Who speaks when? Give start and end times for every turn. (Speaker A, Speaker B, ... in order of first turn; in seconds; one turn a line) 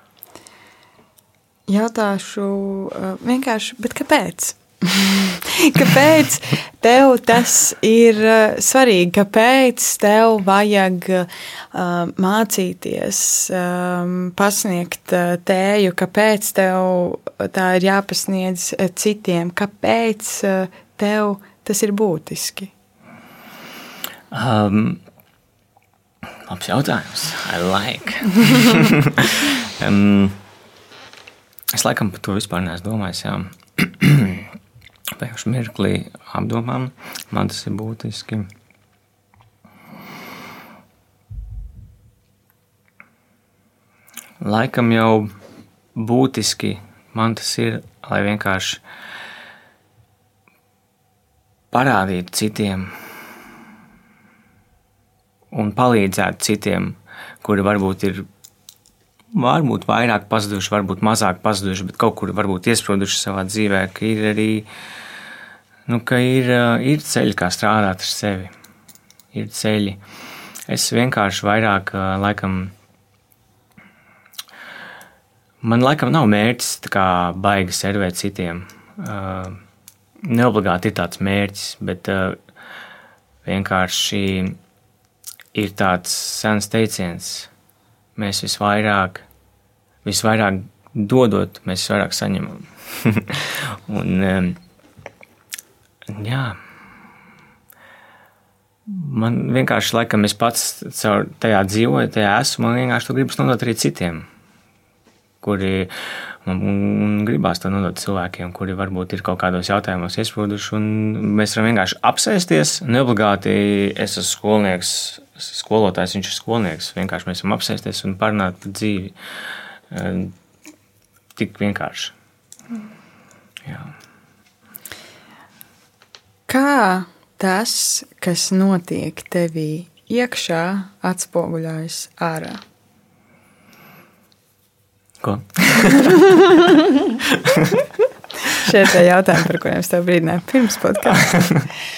Speaker A: 1.7-22.7
Speaker B: 24.3-25.0
Speaker B: 26.5-30.4
Speaker B: 31.7-34.5
Speaker B: 35.2-38.5
Speaker B: 44.4-45.3
Speaker B: 45.9-48.8
Speaker B: 51.7-52.9
Speaker B: 55.5-58.3
Speaker B: 59.3-64.7
Speaker B: 65.8-68.5
Speaker B: 69.3-70.0
Speaker B: 70.7-72.7
Speaker B: 75.6-79.6
Speaker B: 80.2-82.4
Speaker B: 83.4-84.6
Speaker B: 85.5-87.5
Speaker B: 88.2-89.2
Speaker B: 90.0-94.6
Speaker B: 96.1-96.6
Speaker B: 98.9-104.3
Speaker B: 105.4-105.9
Speaker B: 106.4-119.2
Speaker B: 119.9-120.3
Speaker B: 121.3-122.1
Speaker B: 123.6-123.9
Speaker A: 126.5-132.6
Speaker B: 135.2-136.6
Speaker B: 137.2-137.7
Speaker A: 138.5-141.3
Speaker B: 141.2-141.6